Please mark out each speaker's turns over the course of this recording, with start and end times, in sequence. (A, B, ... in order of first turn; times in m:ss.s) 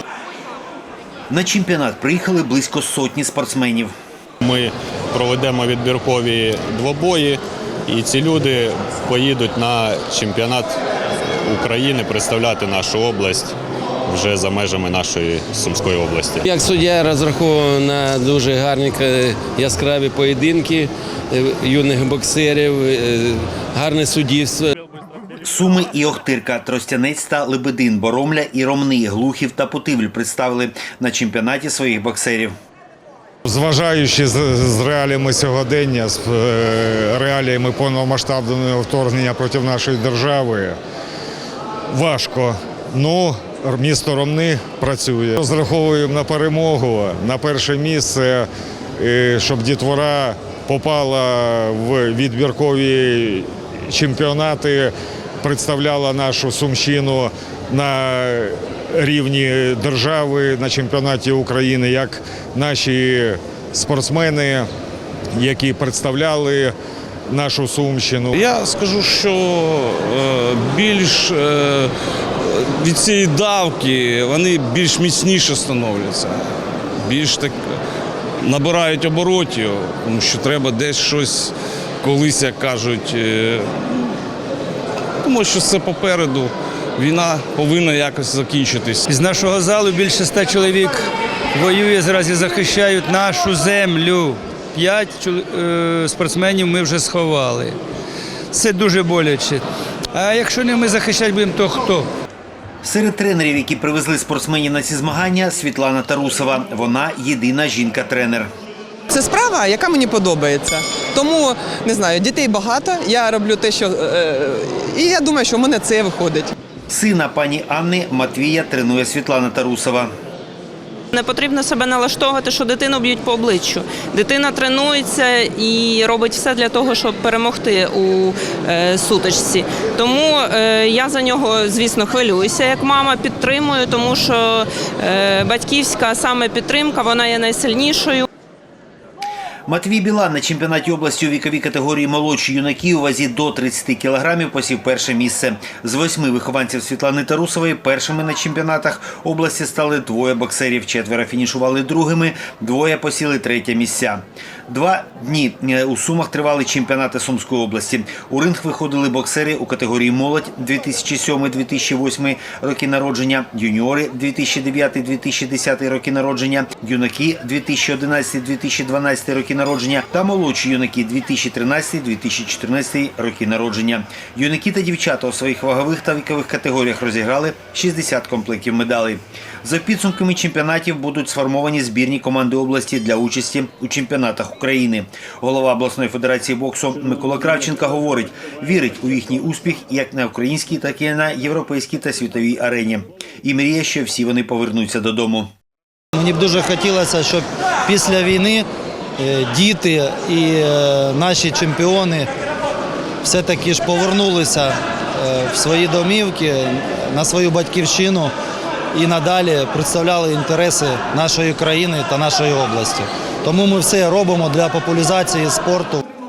0:01.3-0:03.9 A
0:04.4-0:10.8 B
0:11.5-0:13.5 B
0:14.1-0:16.4 B
0:16.4-0:24.7 C
0:25.4-0:32.5 A
0:33.4-0:40.8 D
0:41.9-1:04.7 D
1:05.4-1:06.7 D
1:07.3-1:08.4 D
1:08.3-1:17.8 E
1:18.4-1:24.1 E
1:25.2-1:29.0 E
1:29.1-1:37.8 F
1:38.5-1:39.6 F
1:40.1-1:42.1 F
1:42.8-1:48.5 A
1:49.1-1:56.5 G
1:56.9-2:00.1 A
2:01.1-2:18.2 H
2:19.7-3:15.5 A
3:16.1-3:18.6 I
3:19.2-3:22.3 I
3:23.2-3:28.3 I
3:28.9-3:36.0 I